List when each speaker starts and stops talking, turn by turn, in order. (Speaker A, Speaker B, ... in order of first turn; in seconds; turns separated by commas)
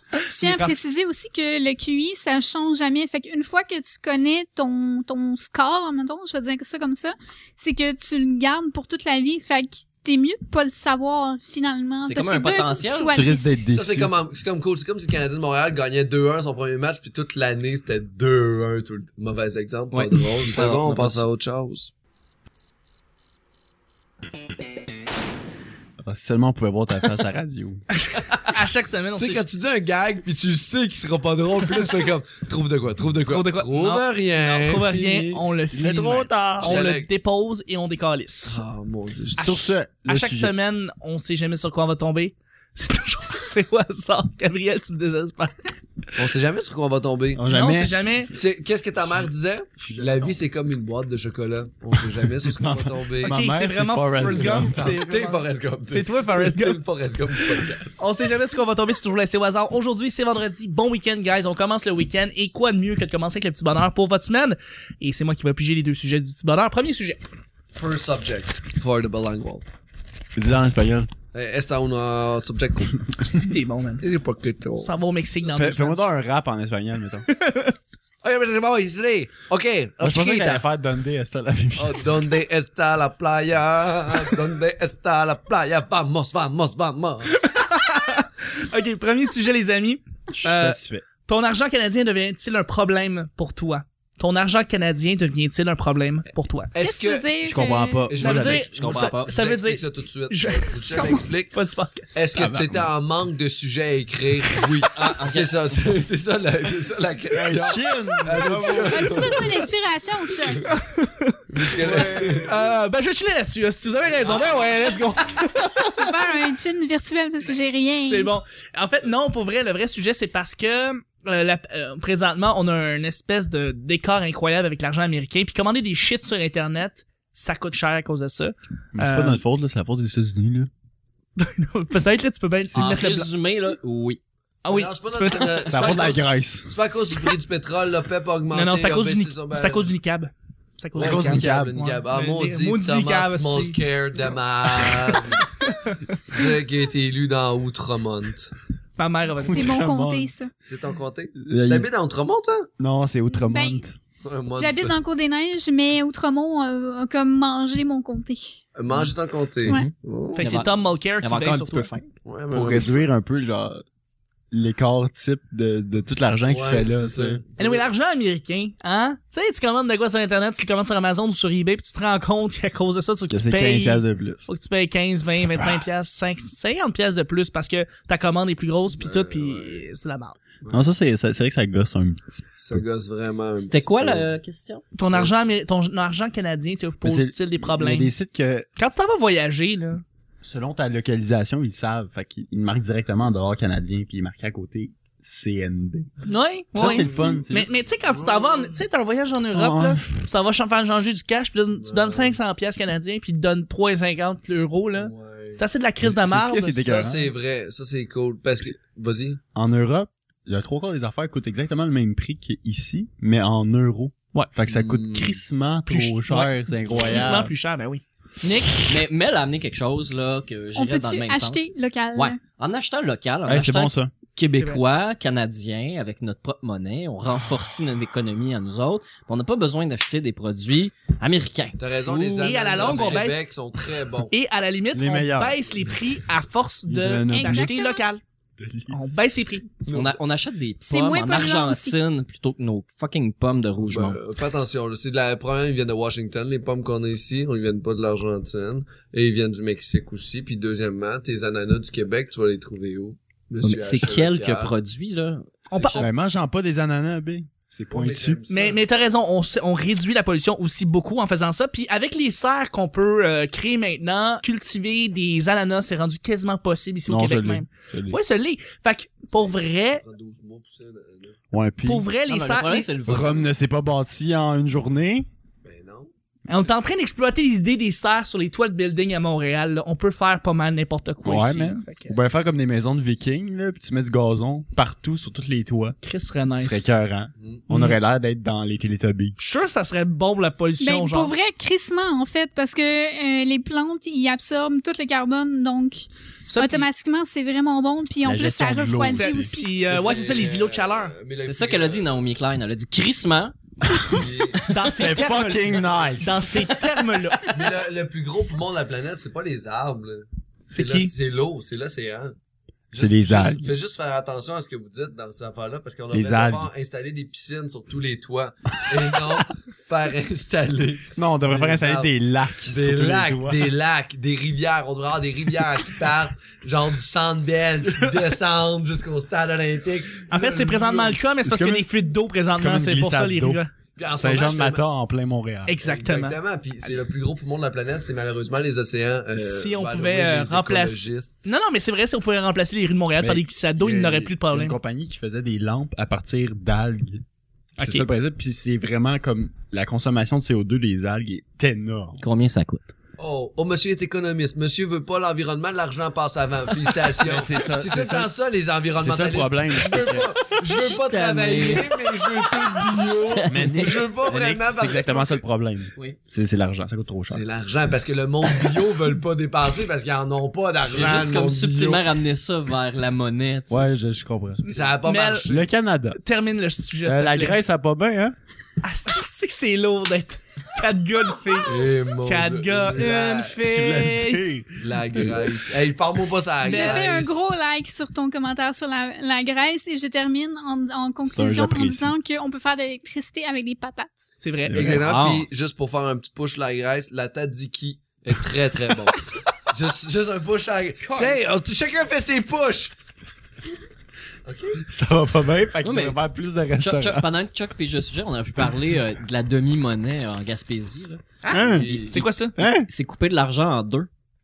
Speaker A: 0.2-0.8, Speaker B: 0.2-13.6, Speaker C: 12.0-13.1, Speaker D: 13.1-14.1, Speaker E: 13.7-21.9, Speaker C: 19.9-21.2, Speaker D: 26.0-27.8, Speaker A: 28.1-29.4, Speaker E: 29.1-35.4, Speaker A: 33.3-38.6, Speaker D: 35.7-36.8, Speaker E: 36.6-37.1, Speaker E: 38.5-39.5, Speaker D: 39.4-40.5, Speaker A: 39.4-46.1, Speaker E: 46.1-47.4, Speaker D: 47.3-47.9, Speaker A: 47.5-48.3, Speaker E: 48.3-53.4, Speaker D: 49.8-50.4, Speaker D: 52.0-54.8, Speaker A: 53.2-56.8, Speaker E: 54.3-58.0, Speaker A: 57.5-67.2, Speaker E: 67.7-69.6, Speaker D: 70.3-71.1, Speaker E: 71.3-73.1, Speaker A: 73.2-74.0, Speaker E: 74.0-75.0, Speaker A: 74.8-76.0, Speaker D: 75.5-77.2, Speaker A: 77.3-77.7, Speaker E: 78.2-80.6, Speaker D: 80.0-82.1, Speaker E: 81.8-87.4, Speaker A: 87.3-96.7, Speaker D: 90.4-91.0, Speaker E: 96.7-97.3, Speaker B: 96.8-98.1, Speaker D: 97.4-98.7, Speaker E: 98.1-101.5, Speaker A: 98.2-102.0, Speaker C: 98.4-99.3, Speaker E: 102.1-109.6, Speaker D: 102.3-102.9, Speaker C: 104.9-105.8, Speaker D: 107.3-109.4, Speaker B: 108.8-110.7, Speaker A: 110.6-116.2, Speaker E: 111.5-112.5, Speaker D: 111.8-112.5, Speaker B: 115.9-118.3, Speaker A: 118.0-129.4, Speaker D: 128.9-130.7, Speaker A: 131.4-133.3, Speaker C: 132.7-134.2, Speaker A: 134.6-135.9, Speaker E: 134.7-139.9, Speaker D: 135.7-136.7, Speaker A: 138.5-143.8, Speaker D: 140.9-141.8, Speaker E: 140.9-145.5, Speaker A: 144.7-146.4, Speaker E: 146.3-148.5, Speaker A: 149.0-149.8, Speaker D: 149.4-150.3, Speaker B: 149.5-150.5, Speaker E: 150.6-152.7, Speaker D: 151.4-151.9, Speaker D: 152.8-153.9, Speaker B: 153.3-153.8, Speaker E: 154.2-154.9, Speaker B: 154.5-158.6, Speaker E: 158.7-160.5, Speaker B: 159.6-159.9, Speaker A: 160.3-161.9, Speaker C: 160.4-162.1, Speaker E: 162.2-163.1, Speaker D: 162.5-163.8, Speaker D: 164.5-167.4, Speaker E: 166.5-167.8, Speaker A: 167.6-180.4, Speaker D: 173.3-174.4, Speaker D: 175.3-175.8, Speaker E: 178.9-179.8, Speaker D: 180.7-182.8, Speaker E: 182.6-184.3, Speaker C: 183.6-184.9, Speaker A: 184.9-188.1, Speaker E: 185.0-185.3, Speaker D: 187.0-188.7, Speaker A: 188.8-190.0, Speaker D: 190.4-196.1, Speaker A: 196.2-207.1, Speaker D: 196.7-197.7, Speaker E: 197.1-197.4, Speaker E: 198.1-198.7, Speaker D: 199.5-200.2, Speaker E: 201.8-202.4, Speaker E: 204.9-205.6, Speaker D: 206.0-207.3, Speaker E: 207.0-209.4, Speaker D: 209.5-217.5, Speaker E: 214.7-215.4, Speaker A: 215.8-218.9, Speaker C: 218.9-233.2, Speaker B: 220.7-222.4, Speaker D: 223.5-224.1, Speaker A: 224.5-224.8, Speaker E: 231.8-234.3, Speaker A: 232.4-233.5, Speaker A: 234.3-238.2, Speaker D: 234.9-235.6, Speaker D: 236.9-237.7, Speaker B: 237.3-238.0, Speaker D: 238.6-238.9, Speaker A: 238.9-239.7, Speaker E: 239.8-240.2, Speaker C: 239.9-244.2, Speaker B: 240.8-242.0, Speaker E: 243.9-254.7, Speaker C: 253.6-255.6, Speaker A: 255.7-256.1, Speaker E: 255.7-256.1, Speaker D: 255.9-258.4, Speaker E: 257.9-258.8, Speaker A: 258.5-270.0, Speaker D: 267.1-268.2, Speaker E: 269.4-271.4, Speaker D: 271.5-272.1, Speaker A: 271.8-272.9, Speaker C: 272.3-273.5, Speaker D: 273.1-275.3, Speaker E: 275.6-276.1, Speaker A: 276.5-282.1, Speaker D: 281.2-286.0, Speaker A: 286.0-286.9, Speaker D: 286.6-289.4, Speaker A: 287.7-288.0, Speaker A: 289.4-291.3, Speaker B: 290.8-299.9, Speaker A: 296.5-296.9, Speaker D: 298.2-299.6, Speaker A: 299.0-301.1, Speaker E: 299.9-302.1, Speaker C: 301.4-303.5, Speaker E: 304.0-304.6, Speaker A: 304.6-307.5, Speaker D: 304.8-306.6, Speaker E: 307.5-312.3, Speaker A: 310.7-311.1, Speaker E: 312.9-322.1, Speaker D: 313.0-313.7, Speaker D: 316.1-316.7, Speaker D: 321.1-323.7, Speaker E: 322.7-331.2, Speaker A: 330.3-333.7, Speaker D: 331.4-331.9, Speaker D: 332.5-333.6, Speaker E: 333.9-334.8, Speaker D: 334.1-335.8, Speaker A: 335.6-336.4, Speaker E: 335.8-341.4, Speaker A: 339.4-344.8, Speaker D: 343.2-347.2, Speaker A: 347.8-348.1, Speaker D: 347.8-352.2, Speaker C: 352.2-352.9, Speaker E: 353.2-365.4, Speaker D: 357.2-358.3, Speaker D: 358.9-360.9, Speaker C: 360.9-361.9, Speaker C: 363.2-363.9, Speaker D: 363.5-367.4, Speaker E: 367.3-372.0, Speaker C: 370.8-373.8, Speaker D: 373.7-374.6, Speaker A: 374.6-375.5, Speaker E: 374.7-375.6, Speaker D: 375.5-376.2, Speaker A: 376.1-377.6, Speaker D: 377.0-378.3, Speaker A: 378.8-384.4, Speaker E: 381.6-383.6, Speaker D: 383.7-385.5, Speaker E: 384.8-387.5, Speaker B: 386.6-394.1, Speaker A: 386.6-387.0, Speaker D: 391.3-392.1, Speaker A: 394.4-394.8, Speaker D: 394.6-395.0, Speaker E: 394.7-402.9, Speaker C: 394.8-395.5, Speaker C: 401.1-401.4, Speaker E: 404.4-404.8, Speaker D: 404.9-407.3, Speaker C: 405.8-406.2, Speaker C: 406.8-411.2, Speaker A: 411.4-412.6, Speaker D: 411.5-412.9, Speaker E: 411.6-412.2, Speaker C: 412.9-414.1